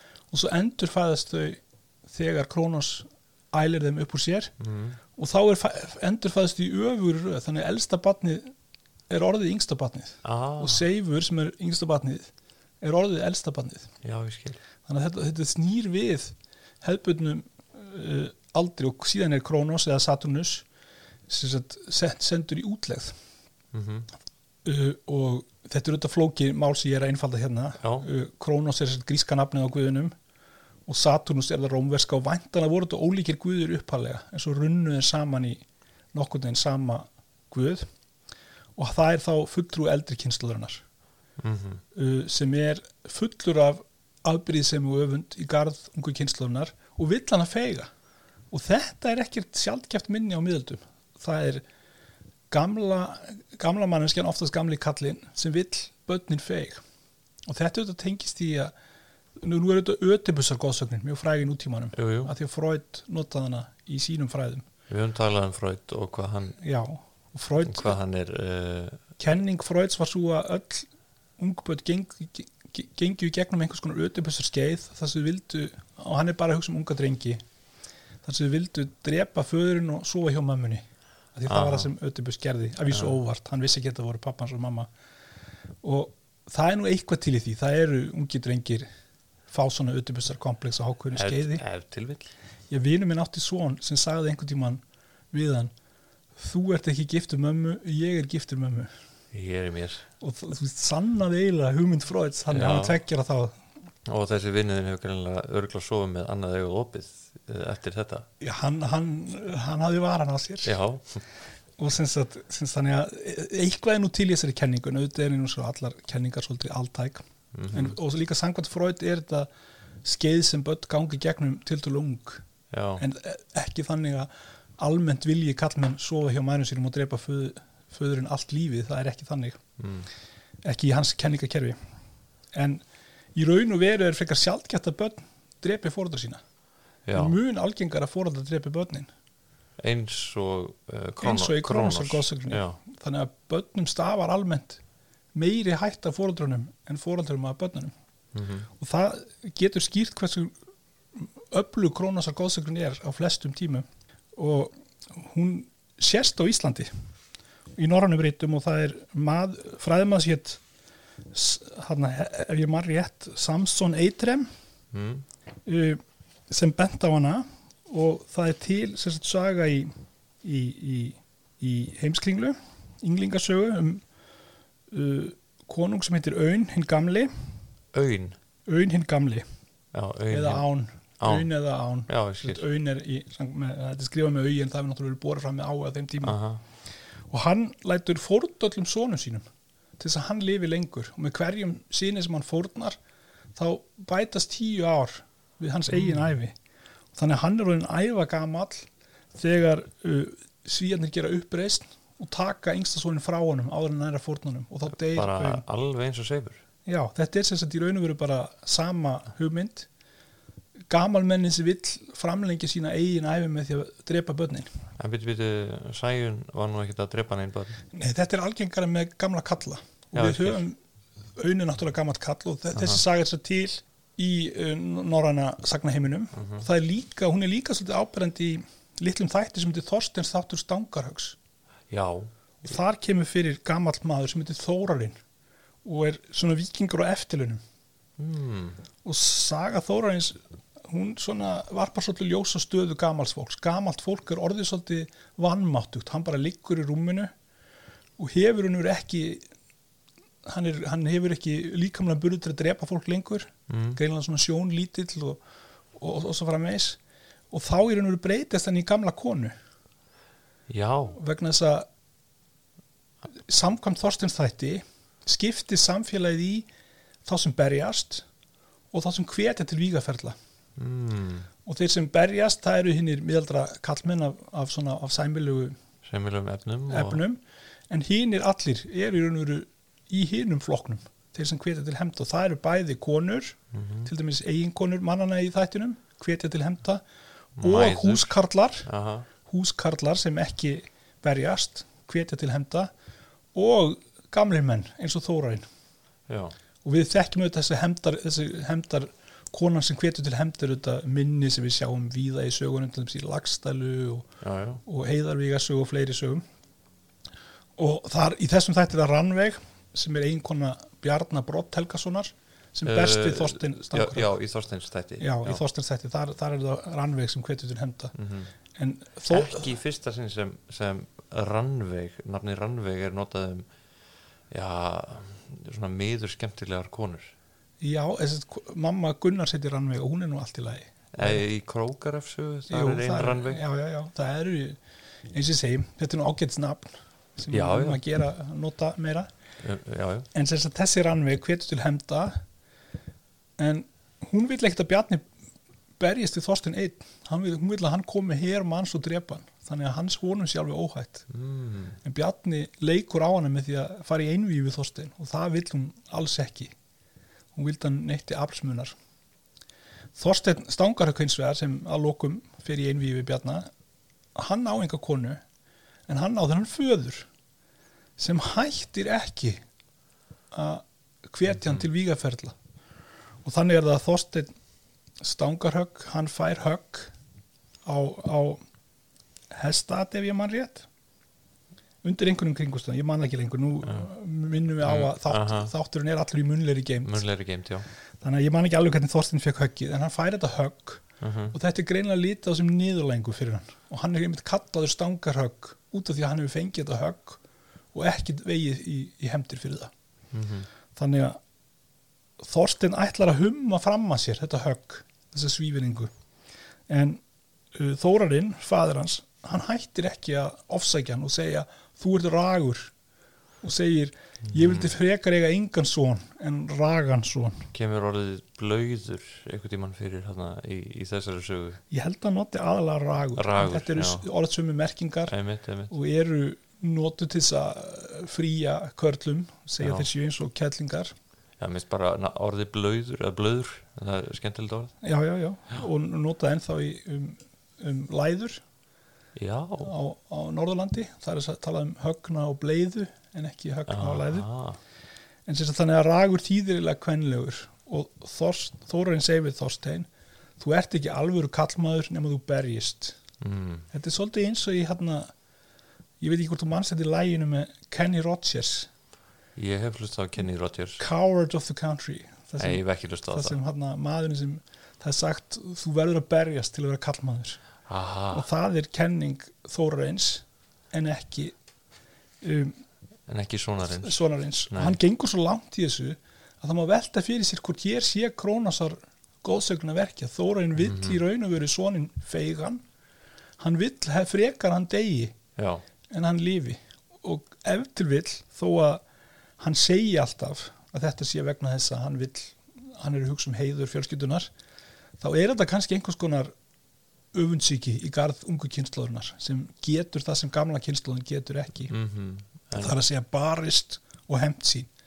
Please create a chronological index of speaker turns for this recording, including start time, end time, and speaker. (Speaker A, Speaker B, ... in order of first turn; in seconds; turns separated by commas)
Speaker A: 0.3-4.5, Speaker B: 4.6-5.0, Speaker A: 5.1-8.5, Speaker A: 9.1-13.9, Speaker B: 10.2-10.8, Speaker B: 14.0-14.6, Speaker A: 14.8-20.7, Speaker A: 21.3-23.2, Speaker B: 23.7-24.1, Speaker A: 24.6-30.1, Speaker B: 27.8-28.1, Speaker A: 30.9-35.6, Speaker A: 36.1-37.9, Speaker A: 38.8-40.8, Speaker B: 41.4-41.8, Speaker A: 41.9-47.9, Speaker A: 48.5-51.6, Speaker A: 52.5-56.8, Speaker A: 57.5-58.7, Speaker A: 59.4-64.7, Speaker B: 61.9-62.3, Speaker B: 64.9-66.6, Speaker A: 66.6-68.0, Speaker B: 67.6-69.0, Speaker A: 69.2-77.4, Speaker A: 78.2-80.8, Speaker A: 81.3-84.9, Speaker B: 81.5-81.9, Speaker B: 82.9-83.2, Speaker A: 85.8-88.9, Speaker A: 89.5-91.6, Speaker B: 91.1-92.3, Speaker A: 92.7-95.7, Speaker A: 96.3-98.9, Speaker B: 99.3-100.0, Speaker A: 100.2-103.6, Speaker B: 102.5-103.0, Speaker B: 104.0-108.3, Speaker A: 108.4-110.7, Speaker B: 110.6-111.2, Speaker A: 111.8-119.5, Speaker B: 117.5-118.0, Speaker A: 120.0-122.4, Speaker B: 122.7-123.0, Speaker A: 123.0-129.6, Speaker B: 129.8-130.1, Speaker A: 130.6-131.8, Speaker A: 132.5-132.8, Speaker A: 133.3-136.4, Speaker B: 137.1-137.3, Speaker A: 137.1-139.1, Speaker B: 139.8-142.8, Speaker A: 141.2-144.8, Speaker A: 145.3-147.9, Speaker B: 148.3-148.7, Speaker A: 148.8-150.6, Speaker A: 151.2-156.9, Speaker A: 157.8-160.6, Speaker A: 161.3-164.5, Speaker B: 164.9-165.2, Speaker A: 165.7-169.9, Speaker A: 170.4-174.0, Speaker A: 174.9-177.3, Speaker B: 177.9-178.4, Speaker A: 178.7-179.4, Speaker B: 179.9-180.7, Speaker A: 180.3-186.4, Speaker B: 181.2-181.5, Speaker B: 182.1-182.6, Speaker B: 186.2-186.6, Speaker A: 187.2-189.4, Speaker A: 190.0-193.0, Speaker A: 193.5-196.6, Speaker B: 195.9-196.3, Speaker A: 197.1-205.6, Speaker B: 205.0-206.6, Speaker A: 206.8-209.9, Speaker A: 210.9-214.8, Speaker B: 215.0-217.8, Speaker A: 217.9-220.8, Speaker B: 220.1-220.6, Speaker A: 221.3-231.4, Speaker B: 222.7-223.0, Speaker B: 226.3-226.6, Speaker B: 231.9-232.3, Speaker A: 232.6-235.2, Speaker A: 235.8-237.6, Speaker B: 238.2-238.8, Speaker A: 239.0-247.3, Speaker A: 248.2-249.5, Speaker A: 250.4-255.4, Speaker B: 253.7-254.0, Speaker A: 255.9-257.0, Speaker A: 257.5-259.5, Speaker B: 260.7-261.2, Speaker A: 261.1-261.9, Speaker A: 263.5-266.7, Speaker A: 267.2-268.2, Speaker A: 268.9-270.4, Speaker B: 270.8-271.5, Speaker A: 271.6-275.8, Speaker B: 276.0-277.2, Speaker A: 276.9-287.0, Speaker B: 283.7-284.1, Speaker B: 287.6-289.3, Speaker A: 287.6-288.9, Speaker A: 289.4-292.9, Speaker A: 293.5-295.6, Speaker B: 296.3-296.5, Speaker A: 296.8-304.3, Speaker B: 304.4-304.8, Speaker A: 304.8-306.4, Speaker A: 307.8-314.3, Speaker B: 312.8-315.6, Speaker A: 315.2-318.1, Speaker B: 318.1-318.5, Speaker A: 318.7-319.7, Speaker B: 319.3-323.7, Speaker B: 324.5-327.3, Speaker A: 327.8-331.4, Speaker B: 331.1-333.6, Speaker A: 332.7-334.8, Speaker A: 335.3-339.3, Speaker B: 337.5-338.0, Speaker B: 339.6-340.3, Speaker A: 340.3-342.4, Speaker A: 343.6-345.3, Speaker A: 346.0-351.3, Speaker B: 351.3-352.0, Speaker A: 352.0-356.7, Speaker A: 357.5-358.9, Speaker A: 360.1-363.7, Speaker A: 364.3-365.4, Speaker A: 366.1-367.3, Speaker A: 368.2-369.6, Speaker A: 370.5-372.6, Speaker A: 373.4-374.5, Speaker A: 375.2-377.1, Speaker A: 377.9-378.6, Speaker A: 379.5-380.9, Speaker A: 382.0-387.2, Speaker B: 384.8-385.7, Speaker B: 387.0-387.9, Speaker A: 388.2-397.4, Speaker B: 391.2-391.5, Speaker A: 397.9-399.9, Speaker B: 400.3-400.7, Speaker A: 400.9-401.4, Speaker A: 402.4-406.1, Speaker A: 406.9-407.2, Speaker A: 407.7-412.9, Speaker A: 413.6-417.7, Speaker B: 414.5-414.9, Speaker B: 417.7-421.8, Speaker A: 421.9-425.3, Speaker B: 423.3-424.3, Speaker B: 425.3-425.9, Speaker A: 425.9-431.1, Speaker B: 429.8-430.1, Speaker B: 431.6-434.9, Speaker A: 435.0-438.6, Speaker B: 439.3-439.9, Speaker A: 439.8-444.5, Speaker B: 443.9-444.8, Speaker A: 445.4-450.1, Speaker A: 450.6-453.2, Speaker B: 453.4-453.9, Speaker A: 453.9-455.3, Speaker A: 456.2-458.9, Speaker B: 459.6-461.0, Speaker A: 461.0-467.6, Speaker B: 462.6-463.6, Speaker B: 467.9-468.4, Speaker A: 468.3-471.6, Speaker A: 472.4-472.8, Speaker B: 473.3-474.2, Speaker A: 473.9-482.8, Speaker B: 474.7-475.0, Speaker B: 480.8-481.2, Speaker A: 483.6-485.4, Speaker B: 485.6-485.8, Speaker A: 486.1-489.0, Speaker A: 489.6-494.5, Speaker A: 495.2-496.5, Speaker A: 497.3-501.9, Speaker B: 501.9-503.0, Speaker A: 502.8-504.9